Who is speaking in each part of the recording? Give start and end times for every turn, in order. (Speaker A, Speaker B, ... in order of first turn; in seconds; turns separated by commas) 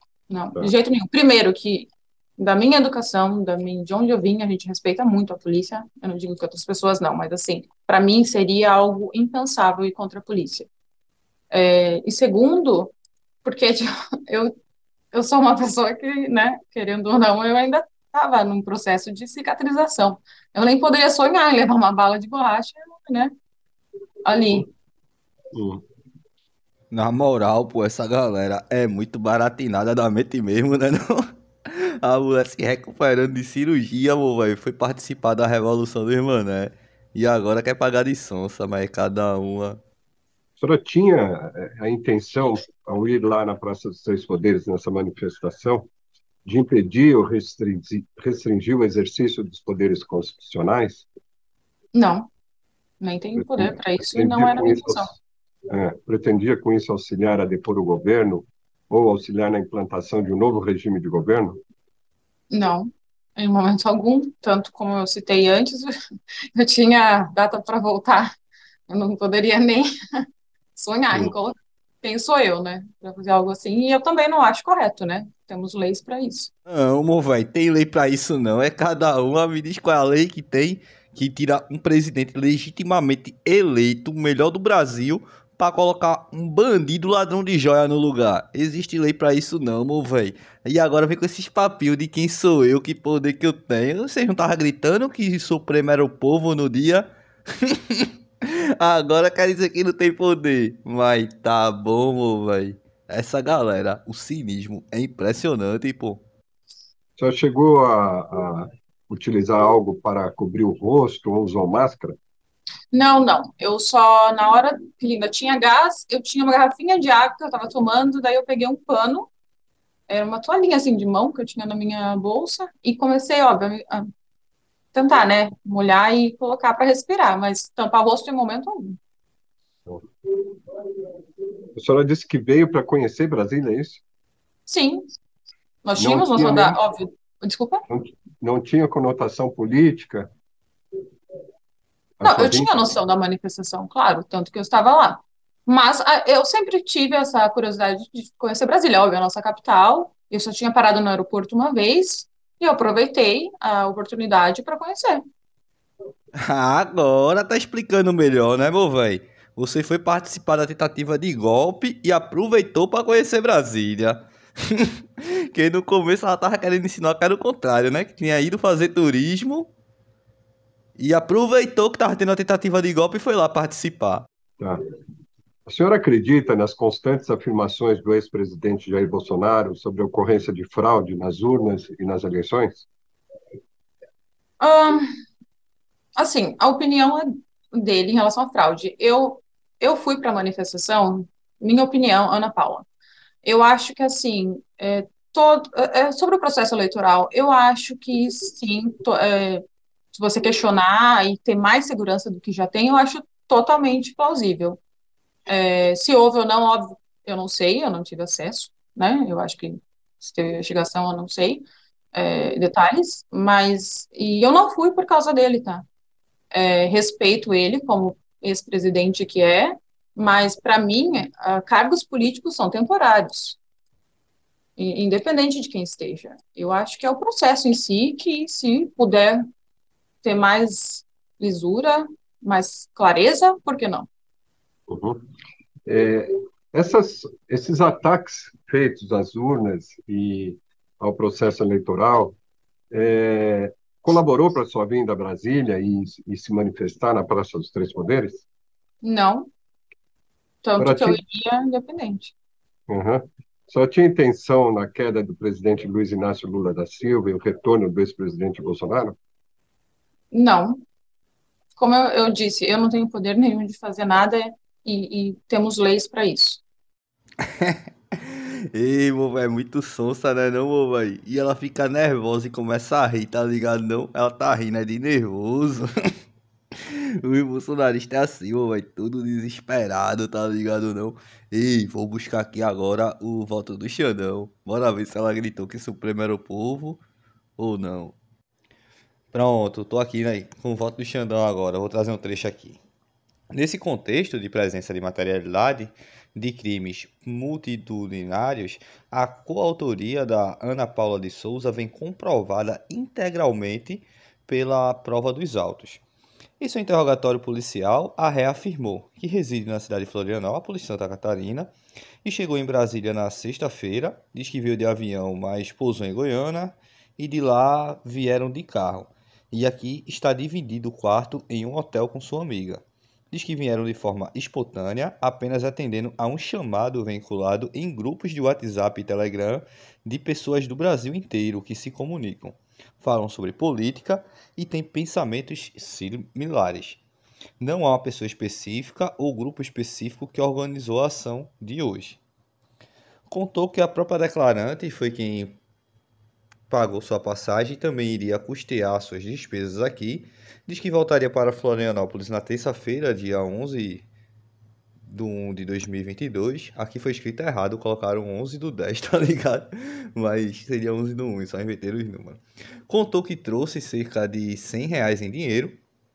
Speaker A: 0.3-10.7, Speaker A: 11.5-12.9, Speaker A: 13.4-14.5, Speaker A: 15.1-23.3, Speaker A: 24.2-24.7, Speaker B: 25.5-25.8, Speaker C: 26.9-39.8, Speaker B: 40.6-45.9, Speaker B: 46.5-51.1, Speaker A: 51.9-52.3, Speaker A: 53.0-55.1, Speaker B: 53.4-55.1, Speaker B: 55.7-61.6, Speaker A: 62.5-65.9, Speaker A: 66.5-68.3, Speaker A: 68.9-69.9, Speaker A: 70.8-76.5, Speaker C: 76.7-106.2, Speaker B: 107.2-112.2, Speaker A: 112.9-119.3, Speaker A: 120.1-124.1, Speaker A: 124.9-129.0, Speaker B: 131.8-134.0, Speaker A: 134.7-135.1, Speaker A: 135.8-137.8, Speaker B: 136.0-136.8, Speaker B: 137.9-140.3, Speaker B: 142.2-142.7, Speaker A: 142.2-155.2, Speaker C: 156.4-169.7, Speaker C: 171.0-174.3, Speaker B: 175.7-182.9, Speaker A: 184.6-185.1, Speaker A: 186.2-192.9, Speaker A: 193.4-199.6, Speaker A: 200.1-204.8, Speaker A: 205.5-215.9, Speaker A: 216.5-223.6, Speaker A: 224.8-229.4, Speaker A: 230.2-234.1, Speaker B: 234.9-235.2, Speaker B: 235.9-242.4, Speaker B: 242.9-248.5, Speaker A: 249.0-249.5, Speaker A: 250.6-252.3, Speaker B: 250.8-251.2, Speaker B: 252.9-259.2, Speaker A: 260.3-260.8, Speaker A: 261.8-266.6, Speaker C: 267.4-275.9, Speaker C: 276.9-287.0, Speaker C: 287.6-288.2, Speaker C: 289.3-292.8, Speaker C: 293.5-306.0, Speaker C: 306.6-311.7, Speaker C: 312.2-337.0, Speaker C: 337.6-342.2, Speaker C: 343.3-345.6, Speaker C: 346.7-354.1, Speaker C: 355.1-365.8